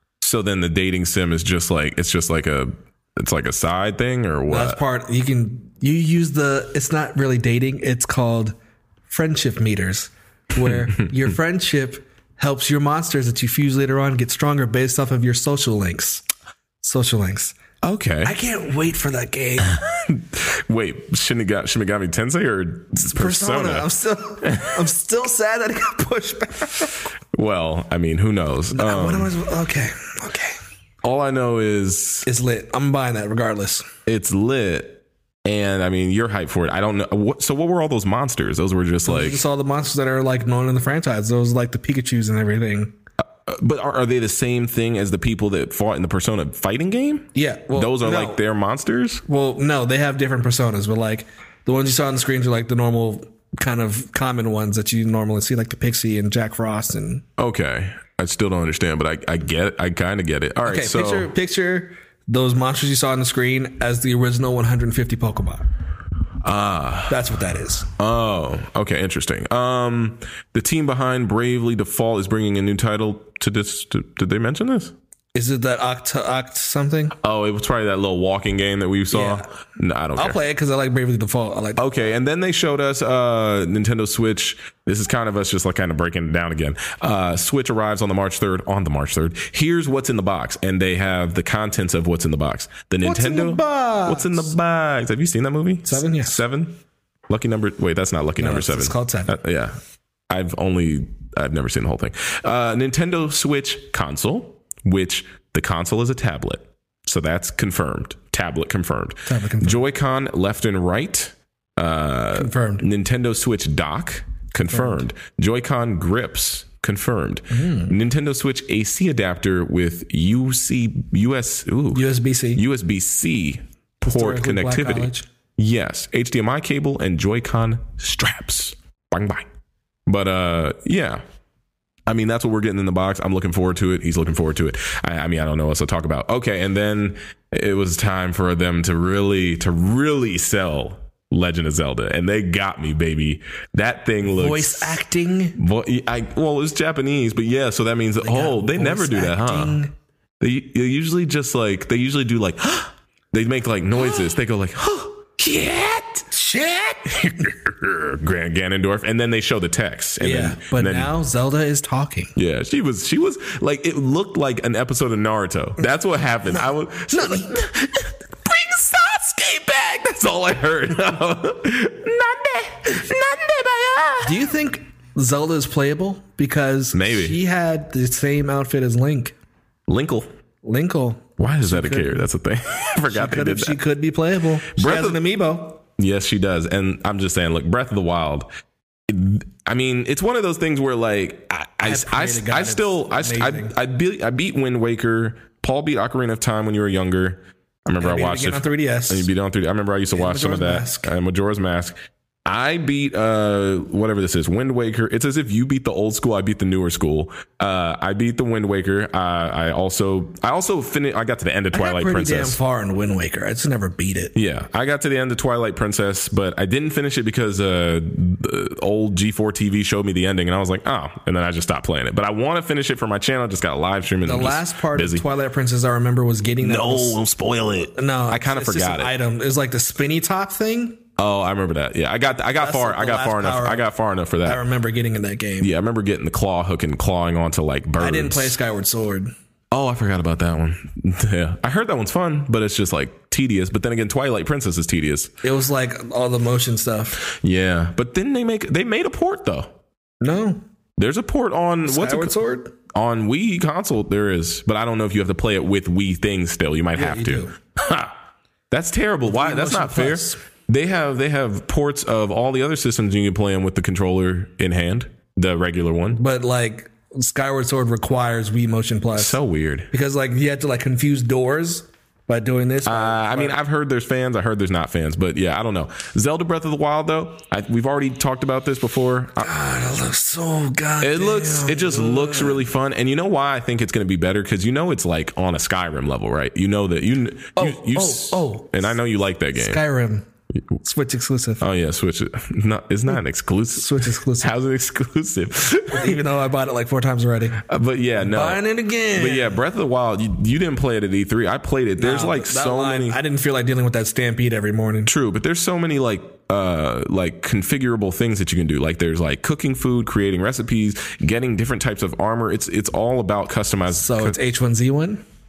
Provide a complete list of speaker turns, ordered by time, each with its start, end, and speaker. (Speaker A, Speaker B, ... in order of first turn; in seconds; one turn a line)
Speaker A: 0.2-4.8
Speaker B: 4.5-8.6
Speaker B: 9.1-16.2
Speaker A: 10.7-11.1
Speaker B: 16.8-17.6
Speaker A: 17.8-18.3
Speaker B: 18.2-19.8
Speaker A: 19.6-23.9
Speaker B: 23.1-27.0
Speaker A: 24.4-24.8
Speaker A: 27.3-29.3
Speaker B: 28.7-30.6
Speaker A: 31.0-32.3
Speaker B: 32.3-33.9
Speaker A: 34.1-39.4
Speaker B: 39.0-43.0
Speaker A: 43.5-49.2
Speaker B: 47.4-48.4
Speaker B: 49.3-57.2
Speaker A: 57.4-61.3
Speaker B: 60.6-65.7
Speaker A: 66.4-67.2
Speaker B: 67.1-67.9
Speaker A: 67.9-75.0
Speaker B: 75.3-77.2
Speaker A: 77.2-80.4
Speaker B: 79.1-79.5
Speaker B: 80.2-81.8
Speaker A: 81.8-96.8
Speaker B: 93.0-94.5
Speaker B: 95.9-96.4
Speaker A: 97.3-99.8
Speaker B: 98.4-99.3
Speaker A: 100.3-129.5
Speaker B: 109.3-109.8
Speaker B: 112.4-112.8
Speaker B: 114.7-115.0
Speaker B: 117.5-117.9
Speaker B: 121.9-122.6
Speaker B: 124.0-125.3
Speaker A: 130.1-131.2
Speaker A: 132.1-145.0
Speaker B: 144.3-145.6
Speaker A: 145.6-149.8
Speaker B: 148.2-149.9
Speaker A: 150.4-156.3
Speaker B: 154.0-154.3
Speaker B: 156.3-157.4
Speaker A: 157.1-161.1
Speaker B: 160.2-162.3
Speaker A: 162.4-174.4
Speaker B: 166.5-167.6
Speaker B: 174.2-179.3
Speaker A: 176.9-177.4
Speaker A: 179.9-180.3
Speaker B: 180.6-182.3
Speaker A: 181.4-183.8
Speaker B: 183.1-185.8
Speaker A: 184.7-185.2
Speaker A: 186.0-188.5
Speaker A: 189.1-212.6
Speaker B: 191.8-193.7
Speaker B: 198.0-199.3
Speaker B: 200.1-201.1
Speaker B: 211.7-214.3
Speaker A: 214.3-225.2
Speaker B: 224.2-227.2
Speaker A: 226.6-229.1
Speaker B: 227.9-231.0
Speaker A: 231.2-234.6
Speaker B: 232.6-233.9
Speaker B: 234.4-235.7
Speaker A: 235.6-238.6
Speaker B: 238.0-239.3
Speaker A: 239.7-245.3
Speaker B: 245.4-247.2
Speaker A: 247.2-249.8
Speaker B: 250.2-250.6
Speaker A: 251.0-252.4
Speaker B: 251.8-252.8
Speaker A: 252.9-258.2
Speaker B: 256.9-257.5
Speaker A: 258.7-266.2
Speaker B: 259.2-260.4
Speaker B: 266.1-269.4
Speaker A: 269.2-269.9
Speaker B: 269.9-273.6
Speaker A: 272.9-279.5
Speaker B: 279.4-282.7
Speaker A: 281.0-289.8
Speaker B: 287.6-288.9
Speaker B: 289.6-290.3
Speaker B: 290.8-291.6
Speaker A: 291.6-296.2
Speaker B: 293.7-294.5
Speaker B: 295.9-297.6
Speaker A: 297.6-303.2
Speaker B: 298.2-299.6
Speaker B: 302.0-305.1
Speaker A: 305.1-314.4
Speaker B: 313.9-315.2